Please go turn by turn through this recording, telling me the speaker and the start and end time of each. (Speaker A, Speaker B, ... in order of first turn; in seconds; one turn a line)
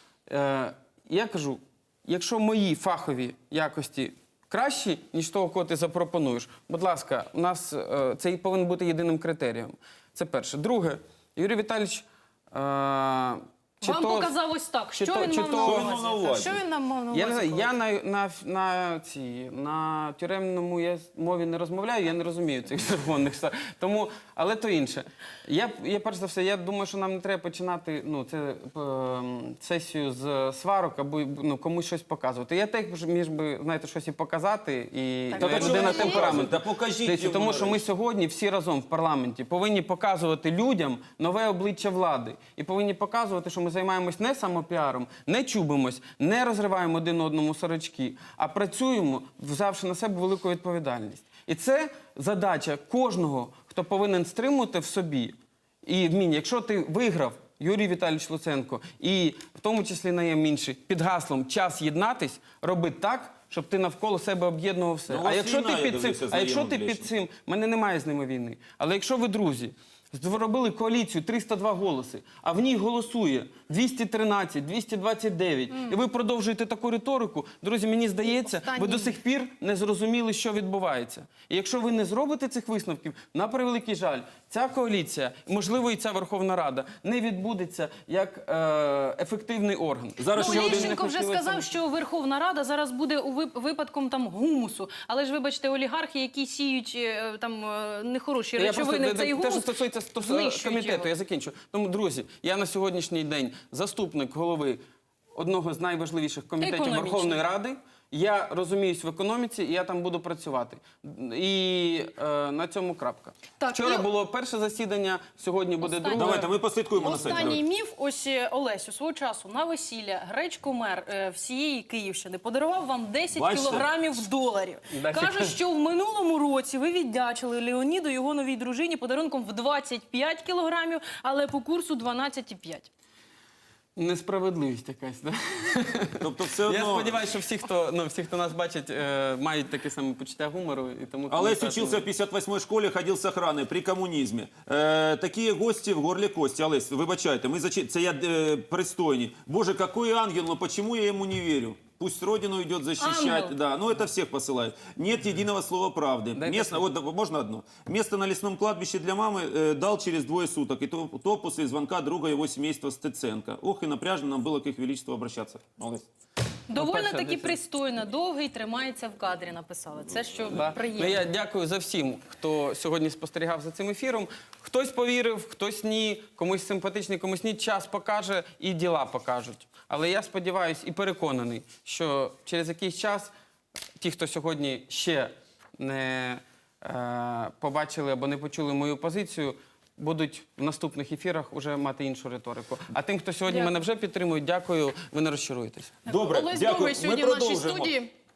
Speaker A: 0.3-14.3
Speaker B: 13.8-17.7
Speaker A: 14.9-16.0
Speaker C: 15.6-16.6
Speaker A: 17.1-91.7
Speaker B: 35.3-36.4
Speaker C: 35.4-37.9
Speaker C: 65.1-67.1
Speaker B: 75.7-76.0
Speaker B: 78.3-79.2
Speaker C: 90.2-91.0
Speaker B: 90.3-101.1
Speaker A: 98.6-104.8
Speaker A: 105.3-116.5
Speaker B: 106.6-107.4
Speaker B: 113.6-114.1
Speaker B: 115.8-132.9
Speaker C: 116.1-117.6
Speaker A: 117.0-117.4
Speaker C: 123.3-123.9
Speaker A: 124.9-125.6
Speaker A: 134.0-142.1
Speaker C: 136.2-137.2
Speaker C: 141.3-166.1
Speaker B: 153.0-153.5
Speaker A: 156.3-156.9
Speaker B: 166.7-171.2
Speaker A: 166.7-167.6
Speaker A: 170.5-183.3
Speaker A: 184.0-196.0
Speaker B: 193.5-193.8
Speaker C: 196.1-198.0
Speaker B: 196.1-198.1